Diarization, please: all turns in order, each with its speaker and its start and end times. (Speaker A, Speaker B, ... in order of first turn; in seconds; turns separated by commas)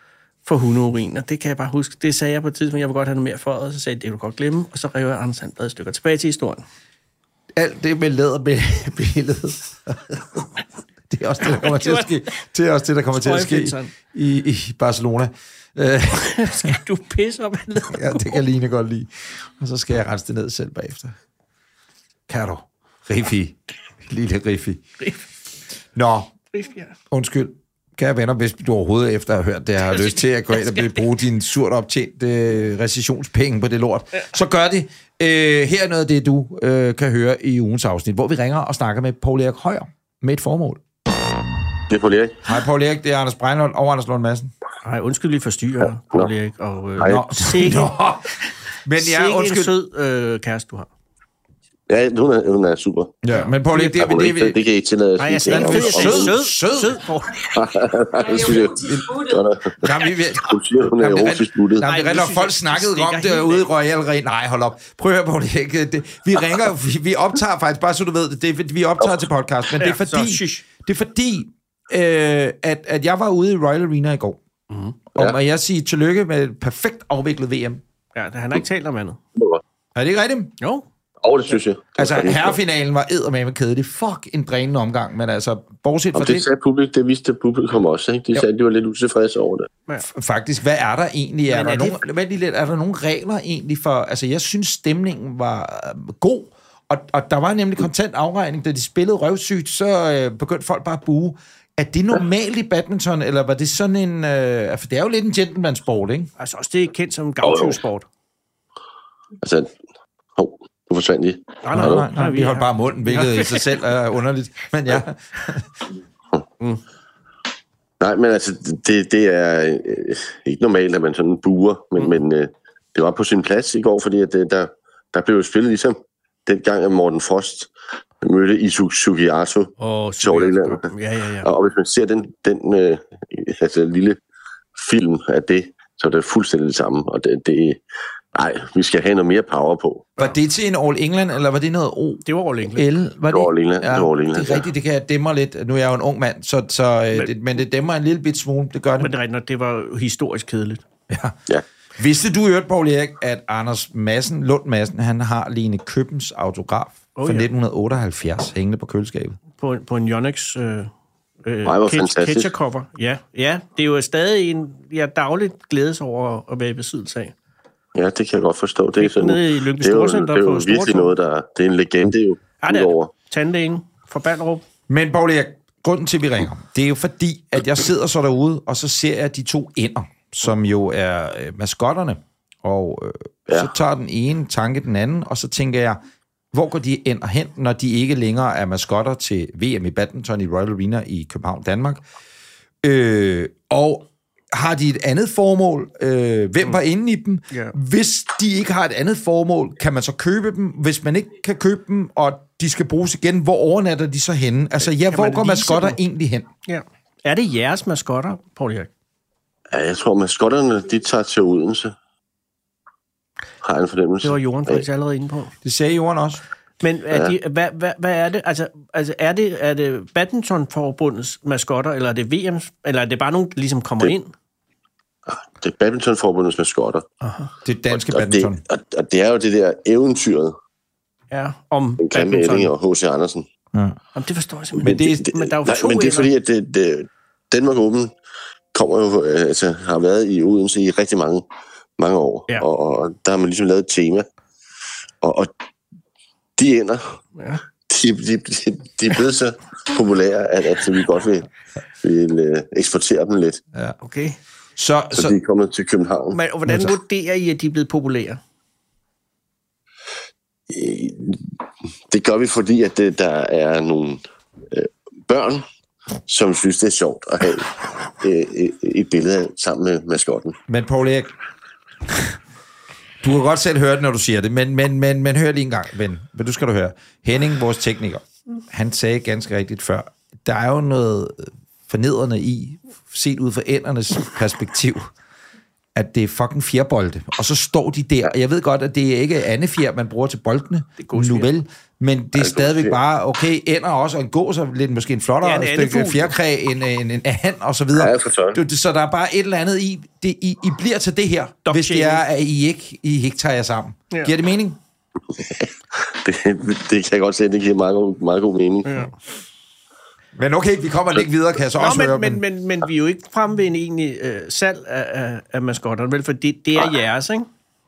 Speaker A: 0.4-6.6, Speaker B: 7.5-16.8, Speaker A: 11.5-12.3, Speaker A: 13.1-13.9, Speaker A: 16.1-18.4, Speaker B: 17.9-21.1, Speaker B: 22.3-24.8, Speaker B: 25.9-26.3, Speaker A: 26.5-26.9, Speaker B: 27.1-40.8, Speaker A: 29.8-31.1, Speaker C: 41.9-42.4, Speaker B: 42.4-44.5, Speaker A: 44.8-47.9, Speaker C: 47.0-47.3, Speaker B: 47.0-48.3, Speaker B: 48.8-49.7, Speaker A: 48.9-50.9, Speaker C: 51.9-53.1, Speaker B: 53.2-54.6, Speaker A: 53.3-53.8, Speaker C: 53.7-56.4, Speaker A: 55.2-57.5, Speaker B: 55.5-57.0, Speaker C: 57.5-61.9, Speaker B: 58.3-59.2, Speaker B: 59.8-74.4, Speaker A: 61.8-63.7, Speaker A: 69.8-70.6, Speaker A: 74.7-75.0, Speaker B: 75.1-77.8, Speaker A: 78.1-79.2, Speaker C: 79.3-79.6, Speaker B: 79.9-80.6, Speaker A: 80.6-80.8, Speaker C: 81.2-82.6, Speaker B: 82.0-86.5, Speaker C: 86.1-89.7, Speaker B: 90.0-106.3, Speaker A: 91.5-92.0, Speaker A: 106.4-108.0, Speaker C: 107.4-107.8, Speaker C: 109.4-109.7, Speaker C: 110.3-112.1, Speaker A: 111.6-113.8, Speaker B: 111.7-115.8, Speaker C: 118.0-127.7, Speaker C: 128.2-130.9, Speaker A: 129.8-131.5, Speaker C: 131.4-134.2, Speaker C: 134.8-137.8, Speaker C: 138.3-140.1, Speaker B: 140.2-149.1, Speaker A: 142.2-142.9, Speaker C: 143.3-144.7, Speaker A: 149.0-150.8, Speaker B: 151.1-151.3, Speaker B: 152.0-159.4, Speaker A: 157.1-157.5, Speaker A: 159.5-160.9, Speaker A: 161.4-167.3, Speaker C: 161.6-162.5, Speaker C: 167.9-173.1, Speaker A: 168.9-171.1, Speaker A: 172.6-174.6, Speaker B: 174.9-186.0, Speaker B: 186.5-192.0, Speaker B: 192.8-206.5, Speaker A: 197.5-197.8, Speaker A: 204.8-206.0, Speaker A: 206.7-208.9, Speaker C: 209.7-211.9, Speaker C: 213.6-214.8, Speaker A: 214.2-215.5, Speaker B: 215.6-216.4, Speaker A: 216.8-224.3, Speaker C: 225.3-227.0, Speaker A: 227.2-227.5, Speaker B: 227.6-228.6, Speaker C: 227.9-230.5, Speaker A: 231.3-232.7, Speaker C: 232.0-233.4, Speaker A: 234.1-236.3, Speaker C: 234.8-238.1, Speaker B: 234.8-235.3, Speaker C: 238.7-241.4, Speaker C: 242.0-244.2, Speaker C: 245.2-245.5, Speaker C: 246.6-247.2, Speaker A: 247.3-247.6, Speaker C: 247.9-251.5, Speaker C: 252.0-253.6, Speaker A: 254.0-254.4, Speaker B: 254.8-255.4, Speaker C: 255.2-256.4, Speaker A: 256.3-258.4, Speaker C: 260.7-261.5, Speaker C: 262.1-265.6, Speaker C: 266.3-270.5, Speaker B: 270.7-271.3, Speaker B: 273.2-285.1, Speaker B: 285.9-304.8, Speaker A: 291.0-291.5, Speaker C: 292.3-293.0, Speaker A: 295.4-296.3, Speaker C: 297.9-298.6, Speaker A: 301.6-302.2, Speaker C: 305.3-309.0, Speaker A: 308.8-309.1, Speaker B: 310.3-312.4, Speaker A: 311.7-317.5